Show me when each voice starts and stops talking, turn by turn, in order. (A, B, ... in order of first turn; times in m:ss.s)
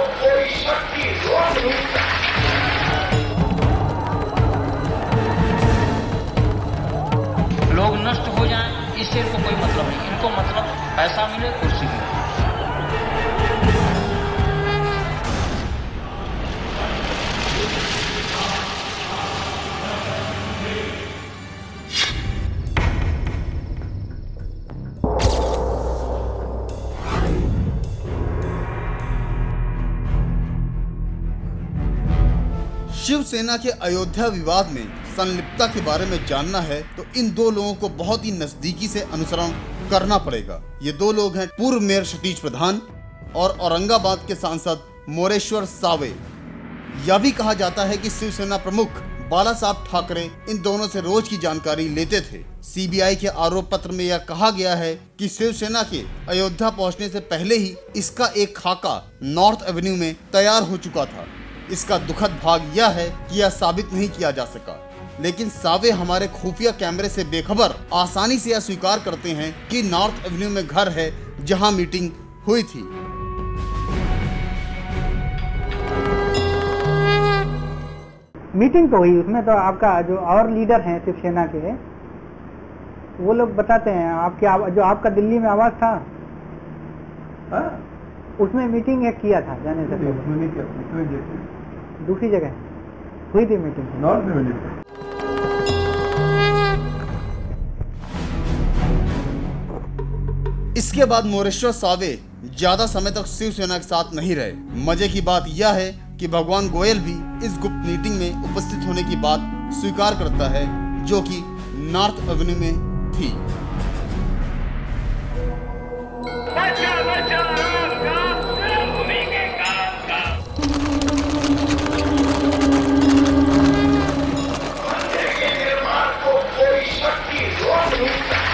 0:07.7-0:12.2 A
0:32.9-0:42.8 B
0:43.4-0:46.2 B
0:46.9-1:12.9 B
1:18.6-1:21.8 C
1:23.2-1:26.1 C
1:27.5-1:27.8 D
1:28.4-1:30.3 C
1:29.9-1:31.5 D
1:32.0-1:32.6 C
1:33.3-1:34.1 C
1:34.0-1:34.8 D
1:40.8-1:53.4 B
1:56.6-2:00.3 A